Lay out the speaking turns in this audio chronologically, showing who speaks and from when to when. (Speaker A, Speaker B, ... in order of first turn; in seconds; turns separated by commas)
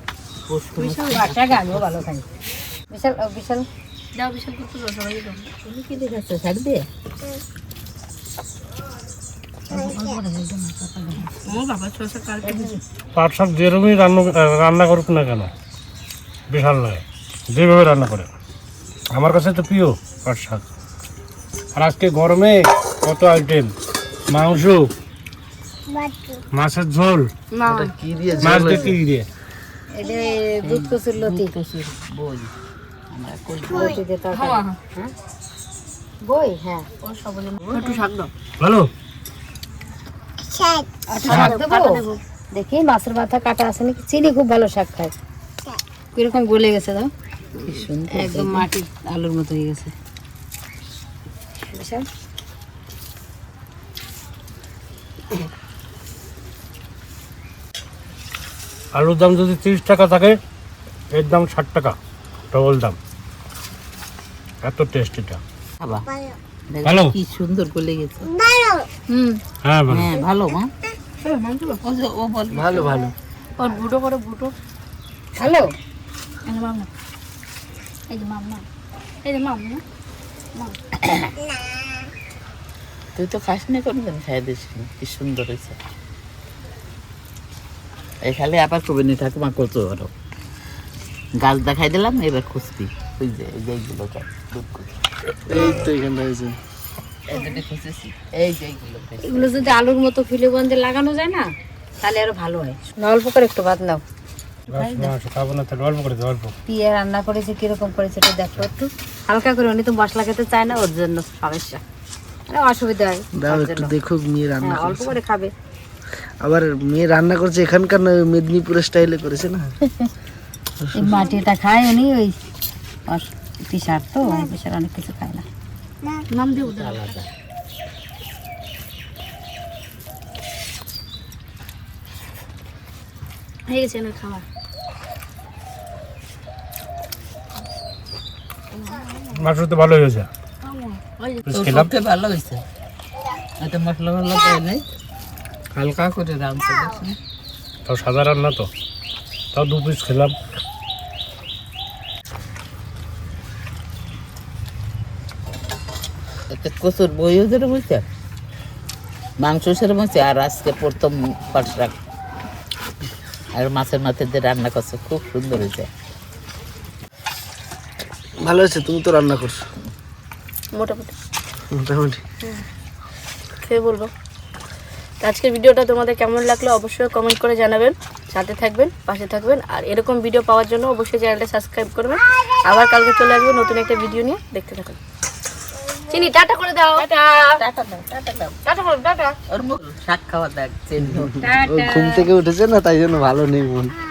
Speaker A: 0.5-1.8, Speaker B: 0.8-1.1, Speaker C: 1.1-2.2, Speaker C: 2.9-3.6, Speaker B: 4.1-5.5, Speaker A: 5.6-6.9, Speaker C: 9.7-11.6, Speaker B: 11.6-12.5, Speaker C: 12.4-12.8, Speaker A: 12.4-12.8, Speaker D: 13.2-15.5, Speaker D: 16.5-18.3, Speaker D: 19.1-20.6, Speaker D: 21.8-23.7, Speaker D: 24.3-24.9, Speaker D: 26.5-27.3, Speaker B: 27.6-27.9, Speaker E: 27.7-28.9, Speaker D: 28.4-29.3, Speaker C: 29.9-31.5, Speaker A: 30.6-32.5, Speaker A: 33.1-34.6, Speaker C: 33.7-35.1, Speaker C: 36.2-36.9, Speaker A: 37.0-38.2, Speaker B: 37.7-38.2, Speaker D: 38.6-38.9, Speaker C: 41.1-42.0, Speaker A: 41.2-42.2, Speaker D: 41.3-41.5, Speaker C: 42.5-45.1, Speaker C: 46.1-47.1, Speaker A: 47.6-48.7, Speaker C: 48.1-49.9, Speaker C: 51.7-52.0, Speaker D: 59.0-60.4, Speaker D: 61.1-62.0, Speaker D: 62.5-63.0, Speaker D: 64.6-65.4, Speaker A: 66.7-68.3, Speaker D: 66.8-67.2, Speaker C: 69.1-69.4, Speaker D: 69.6-70.1, Speaker A: 69.9-70.7, Speaker A: 71.3-73.0, Speaker E: 72.5-73.1, Speaker B: 73.6-74.5, Speaker C: 75.4-75.7, Speaker B: 76.5-76.9, Speaker A: 78.1-78.6, Speaker B: 79.2-79.8, Speaker A: 81.0-81.3, Speaker A: 83.1-85.8, Speaker A: 88.2-90.1, Speaker A: 91.4-94.9, Speaker E: 95.5-96.5, Speaker A: 97.3-99.7, Speaker C: 99.2-101.5, Speaker C: 102.0-104.0, Speaker C: 104.7-105.1, Speaker D: 104.7-106.5, Speaker C: 106.7-111.8, Speaker C: 112.5-113.9, Speaker E: 113.3-115.2, Speaker C: 114.6-115.5, Speaker E: 116.4-119.7, Speaker C: 119.8-120.1, Speaker E: 120.8-121.1, Speaker C: 120.9-122.4, Speaker C: 123.1-125.4, Speaker B: 126.3-127.0, Speaker A: 126.4-127.3, Speaker B: 133.7-134.4, Speaker D: 139.3-140.3, Speaker B: 140.6-141.4, Speaker D: 141.4-141.9, Speaker A: 141.5-142.6, Speaker A: 143.6-144.8, Speaker A: 145.7-147.2, Speaker D: 147.8-148.7, Speaker D: 149.5-150.3, Speaker A: 156.5-158.0, Speaker A: 159.4-161.9, Speaker A: 163.5-165.9, Speaker E: 168.4-169.6, Speaker B: 170.7-171.1, Speaker E: 171.7-172.2, Speaker B: 173.6-174.1, Speaker B: 175.2-185.0, Speaker B: 186.1-187.6, Speaker A: 187.6-188.6, Speaker B: 188.6-189.3, Speaker A: 189.5-191.6, Speaker E: 191.0-193.9